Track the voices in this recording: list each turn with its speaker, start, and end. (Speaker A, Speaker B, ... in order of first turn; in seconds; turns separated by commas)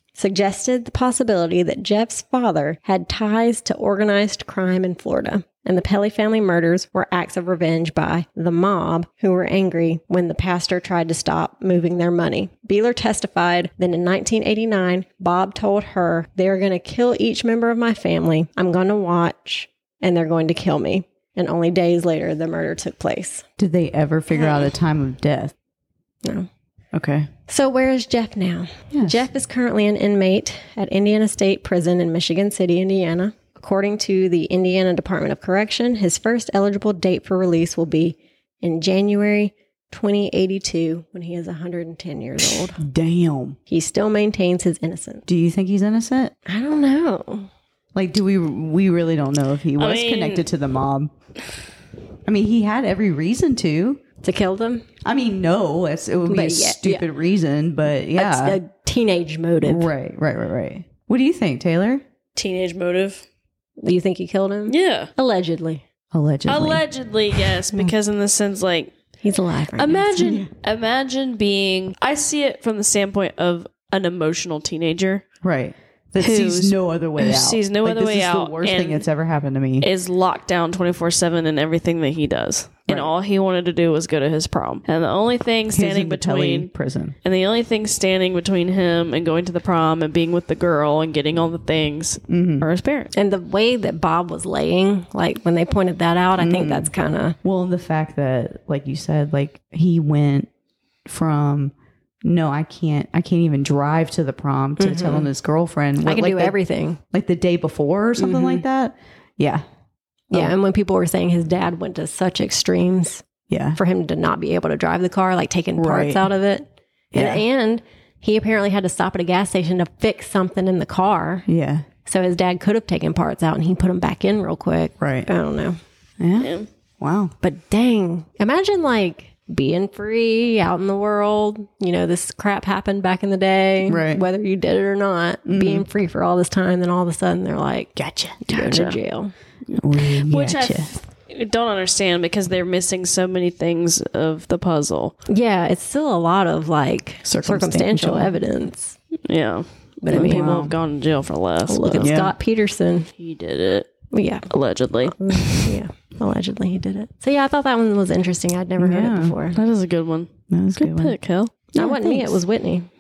Speaker A: 0.2-23.4, Speaker B: 23.6-25.5, Speaker B: 26.9-27.3, Speaker A: 27.5-42.8, Speaker B: 28.9-29.2, Speaker B: 42.8-43.6, Speaker A: 43.7-45.2, Speaker B: 45.3-46.3, Speaker A: 46.5-47.5, Speaker B: 48.0-51.1, Speaker C: 49.8-50.5, Speaker B: 52.3-54.0, Speaker A: 54.2-54.9, Speaker B: 55.0-58.6, Speaker A: 56.3-57.1, Speaker A: 58.2-59.9, Speaker B: 59.7-62.0, Speaker C: 62.4-63.2, Speaker A: 63.8-65.8, Speaker C: 64.7-65.1, Speaker B: 66.1-66.8, Speaker C: 66.5-68.9, Speaker A: 69.2-70.4, Speaker C: 69.8-75.2, Speaker B: 70.2-70.5, Speaker B: 75.4-79.9, Speaker C: 76.2-79.0, Speaker C: 79.8-86.7, Speaker B: 85.7-87.2, Speaker C: 87.2-93.1, Speaker B: 92.3-92.7, Speaker A: 93.1-97.4, Speaker B: 96.4-96.9, Speaker B: 97.4-100.5, Speaker B: 101.1-106.6, Speaker A: 104.8-105.3, Speaker A: 106.0-107.0, Speaker B: 107.1-109.6, Speaker A: 108.2-108.7, Speaker A: 110.3-121.5, Speaker B: 113.5-113.8, Speaker B: 115.8-116.3, Speaker B: 117.1-117.4, Speaker B: 121.5-121.9, Speaker A: 122.0-125.8, Speaker B: 125.0-125.3, Speaker B: 126.2-127.3, Speaker C: 126.4-126.7, Speaker A: 127.4-139.3, Speaker B: 133.9-134.2, Speaker B: 135.5-135.9, Speaker B: 138.0-138.9, Speaker C: 138.7-138.9, Speaker C: 139.7-145.2, Speaker B: 139.8-140.9, Speaker A: 145.3-149.0, Speaker B: 147.2-148.3, Speaker C: 149.3-152.1, Speaker A: 150.0-150.6, Speaker B: 150.2-150.8, Speaker A: 151.7-153.1, Speaker B: 152.0-152.3, Speaker C: 153.2-153.9, Speaker A: 154.1-154.5, Speaker C: 154.5-155.7, Speaker A: 155.1-159.6, Speaker B: 158.8-159.3, Speaker C: 159.6-161.5, Speaker B: 160.5-161.2, Speaker A: 161.7-162.9, Speaker B: 161.8-162.4